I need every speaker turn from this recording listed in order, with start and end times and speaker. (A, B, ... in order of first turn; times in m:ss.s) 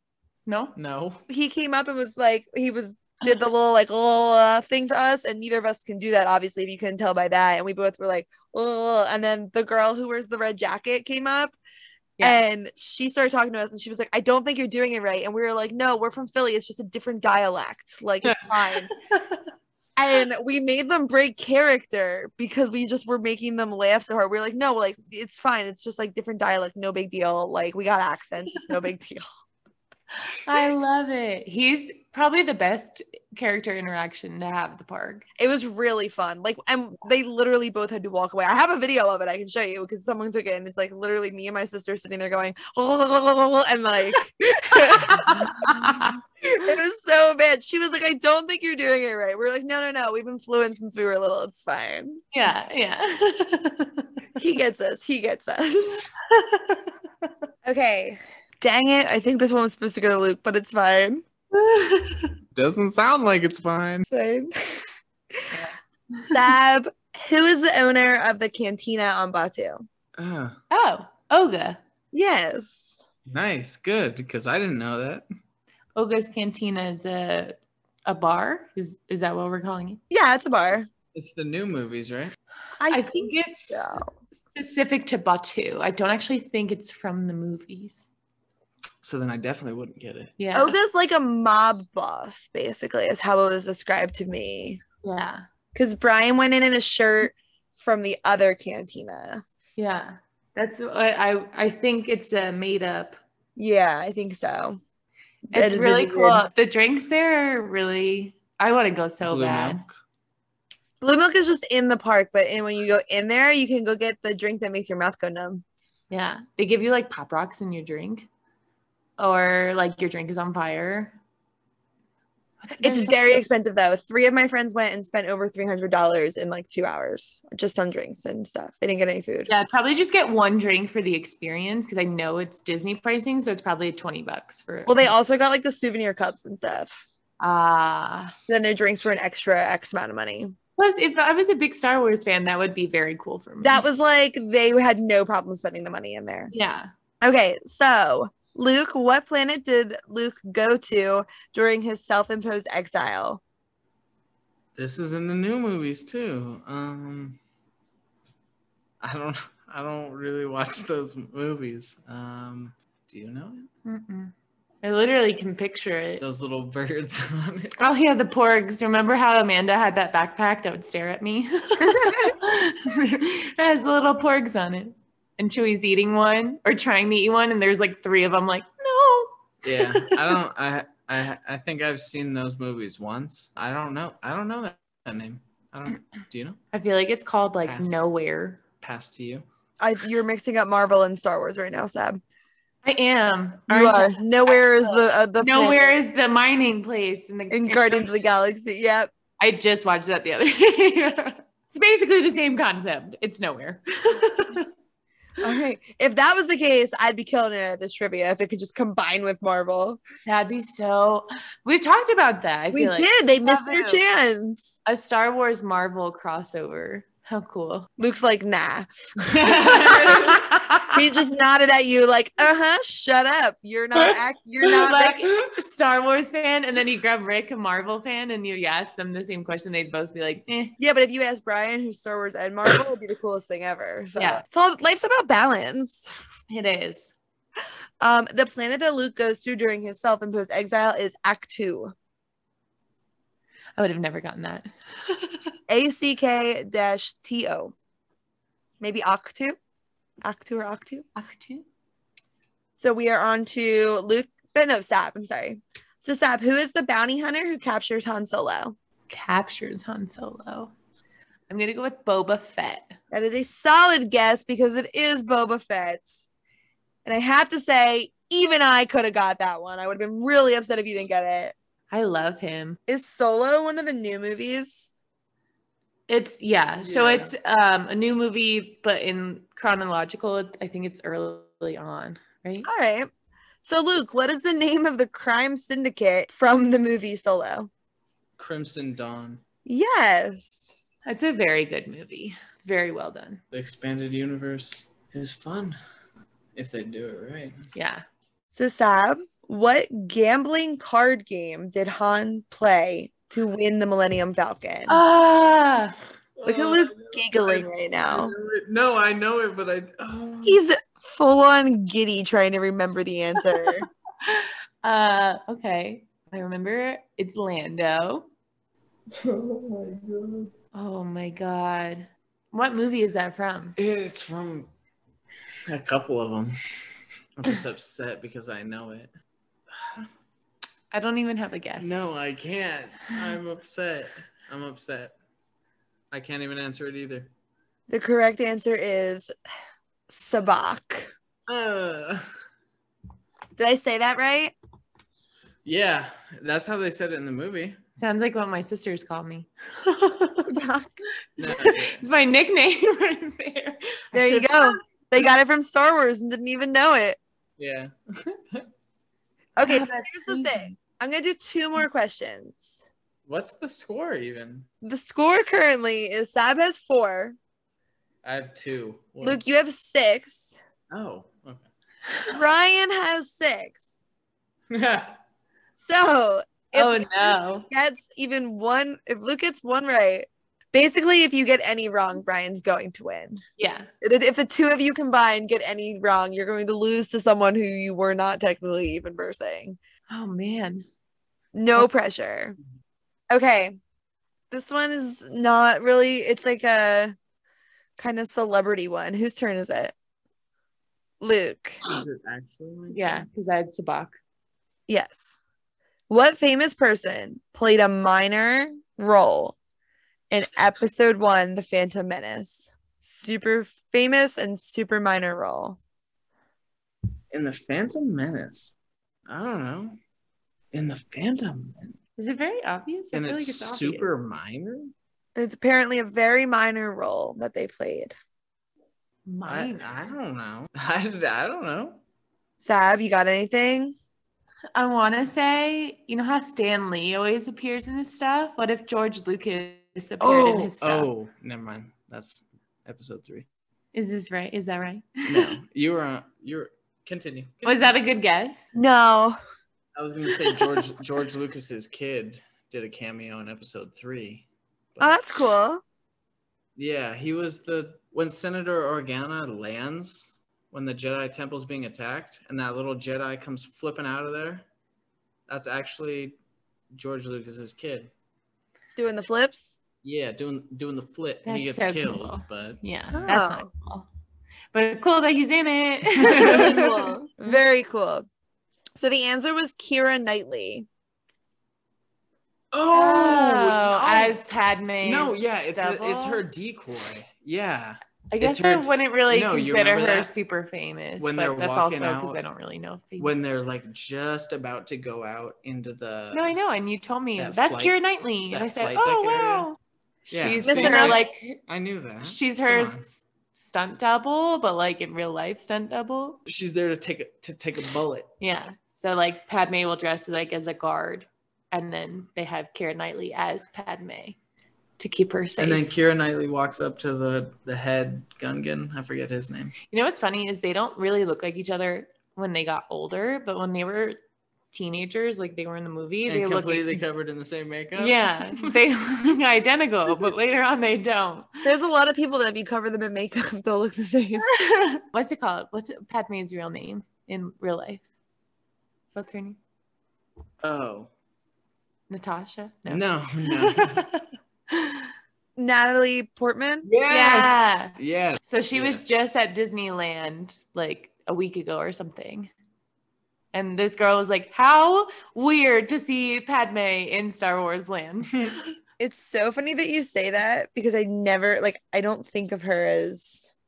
0:00.5-0:00.8 A
0:00.8-0:01.2 B
0:01.3-0:11.6 C
0:12.2-0:18.9 C
0:19.2-0:19.4 A
0:20.0-0:29.3 C
0:30.3-0:35.3 A
0:35.4-0:52.2 C
0:44.7-0:46.2 A
0:52.3-0:54.1 A
0:54.4-0:56.1 C
0:56.3-0:57.0 A
0:57.6-1:01.2 C
1:01.5-1:02.3 A
1:02.6-1:04.1 B
1:04.1-1:04.9 C
1:05.5-1:06.4 A
1:06.3-1:09.8 C
1:10.2-1:10.6 B
1:10.7-1:11.8 A
1:12.1-1:13.0 C
1:13.3-1:15.2 B
1:16.0-1:20.0 A
1:20.1-1:20.9 C
1:21.1-1:22.3 B
1:22.8-1:24.1 C
1:22.9-1:28.1 A
1:29.0-1:30.4 B
1:30.4-1:30.8 A
1:30.5-1:34.8 C
1:35.0-1:35.4 A
1:35.8-1:39.4 C
1:39.8-1:43.2 A
1:43.6-1:44.8 C
1:45.5-1:46.5 C
1:45.5-1:49.8 A
1:49.3-1:49.9 B
1:51.0-1:55.6 C
1:56.1-1:58.3 A
1:59.2-2:01.2 A
2:02.6-2:03.5 A
2:02.8-2:09.5 C
2:09.5-2:15.1 A
2:14.9-2:17.0 C
2:17.4-2:18.3 A
2:18.5-2:20.5 C
2:20.8-2:23.9 A
2:23.6-2:26.5 C
2:26.5-2:26.9 A
2:27.2-2:33.4 C
2:34.8-2:37.4 B
2:39.0-2:43.7 B
2:43.9-2:46.2 A
2:46.2-2:47.8 B
2:47.8-3:00.3 A
2:51.8-2:52.4 C
2:59.6-3:06.6 B
3:06.7-3:08.6 A
3:07.6-3:08.0 B
3:08.8-3:09.4 B
3:09.8-3:12.2 C
3:12.8-3:18.2 A
3:13.7-3:16.0 C
3:17.5-3:19.1 C
3:19.4-3:24.7 A
3:25.4-3:30.0 C
3:30.2-3:34.0 A
3:32.7-3:34.7 C
3:34.8-3:37.9 A
3:38.0-3:38.9 C
3:39.2-3:40.5 B
3:39.5-3:41.0 A
3:40.9-3:45.2 C
3:44.7-3:50.8 A
3:50.8-3:56.1 C
3:54.2-3:54.4 A
3:56.5-3:57.2 A
3:58.0-4:01.9 C
4:03.8-4:05.4 A
4:05.7-4:07.7 C
4:08.8-4:09.6 C
4:10.2-4:11.0 C
4:11.2-4:11.6 A
4:12.8-4:18.8 C
4:19.1-4:20.7 A
4:21.5-4:23.0 A
4:23.1-4:26.2 C
4:27.0-4:31.6 C
4:31.9-4:32.8 A
4:32.9-4:34.9 C
4:36.1-4:42.7 A
4:36.8-4:37.3 B
4:42.6-4:43.1 C
4:43.6-4:47.7 C
4:48.4-4:49.4 B
4:49.7-4:50.7 C
4:51.1-4:53.4 A
4:53.5-4:55.8 B
4:56.6-4:57.8 B
4:57.8-4:58.0 A
4:58.5-5:05.0 C
5:04.9-5:06.0 A
5:06.4-5:10.6 B
5:06.4-5:08.3 C
5:10.4-5:13.9 C
5:14.2-5:18.3 A
5:19.2-5:20.5 B
5:20.7-5:23.8 A
5:23.8-5:24.7 B
5:25.7-5:26.6 B
5:27.4-5:29.1 B
5:29.7-5:30.1 B
5:30.9-5:32.1 A
5:31.8-5:35.2 B
5:36.1-5:37.3 B
5:37.9-5:39.3 C
5:40.1-5:41.1 C
5:41.5-5:42.2 B
5:43.6-5:44.5 C
5:45.6-5:47.8 B
5:48.0-5:50.6 A
5:50.5-5:51.0 C
5:51.4-5:54.8 A
5:51.4-5:52.0 B
5:54.1-5:57.2 C
5:57.6-5:58.7 B
5:59.6-6:02.8 C
5:59.6-6:00.7 A
6:03.3-6:04.7 B
6:04.8-6:07.4 C
6:08.2-6:09.4 B
6:09.2-6:10.6 C
6:10.9-6:11.7 B
6:12.3-6:14.0 C
6:14.7-6:15.2 B
6:15.8-6:23.4 C
6:16.8-6:17.7 A
6:23.6-6:23.9 A
6:24.0-6:29.8 C
6:30.1-6:30.9 A
6:31.5-6:32.6 C
6:33.3-6:33.8 C
6:34.5-6:37.2 C
6:38.0-6:39.9 C
6:41.2-6:41.8 C
6:41.8-6:43.2 B
6:42.9-6:44.2 A
6:44.9-6:45.4 C
6:46.1-6:49.6 C
6:50.3-6:55.8 C
6:57.3-6:58.7 B
6:59.3-7:00.0 B
7:00.7-7:02.0 B
7:02.2-7:04.2 A
7:03.1-7:04.9 B
7:05.4-7:08.1 C
7:09.3-7:10.2 A
7:09.5-7:12.0 B
7:12.6-7:14.0 C
7:14.8-7:21.1 A
7:20.2-7:23.5 B
7:23.9-7:25.5 A
7:25.3-7:27.9 B
7:27.6-7:28.6 A
7:28.8-7:29.4 C
7:30.0-7:35.2 B
7:35.0-7:35.8 C
7:36.8-7:44.6 B
7:45.5-7:46.4 B
7:46.9-7:48.1 B
7:49.0-7:49.8 C
7:50.0-7:53.4 B
7:51.4-7:54.1 A
7:53.3-7:53.7 C
7:54.7-7:57.6 A
7:56.2-7:56.8 B
7:56.3-7:58.3 C
7:59.0-8:00.9 C
8:02.7-8:04.4 B
8:02.9-8:06.4 A
8:05.0-8:10.3 B
8:08.3-8:13.4 A
8:11.2-8:12.4 B
8:13.2-8:16.6 B
8:16.3-8:19.8 A
8:17.4-8:18.0 B
8:18.5-8:19.7 B
8:20.3-8:23.1 B
8:20.3-8:21.6 A
8:20.6-8:21.2 C
8:22.2-8:26.4 A
8:26.5-8:28.3 B
8:28.4-8:34.4 A
8:35.0-8:35.9 A
8:35.6-8:39.8 B
8:39.9-8:44.2 A
8:44.7-8:47.0 A
8:46.3-8:48.7 B
8:48.0-8:51.6 A
8:51.6-8:54.5 C
8:54.5-8:58.0 A
8:59.2-8:59.6 A
9:00.6-9:01.1 B
9:02.1-9:05.1 A
9:02.9-9:04.0 B
9:05.6-9:06.9 C
9:06.8-9:09.0 B
9:07.1-9:12.5 A
9:13.5-9:18.6 A
9:19.0-9:23.5 C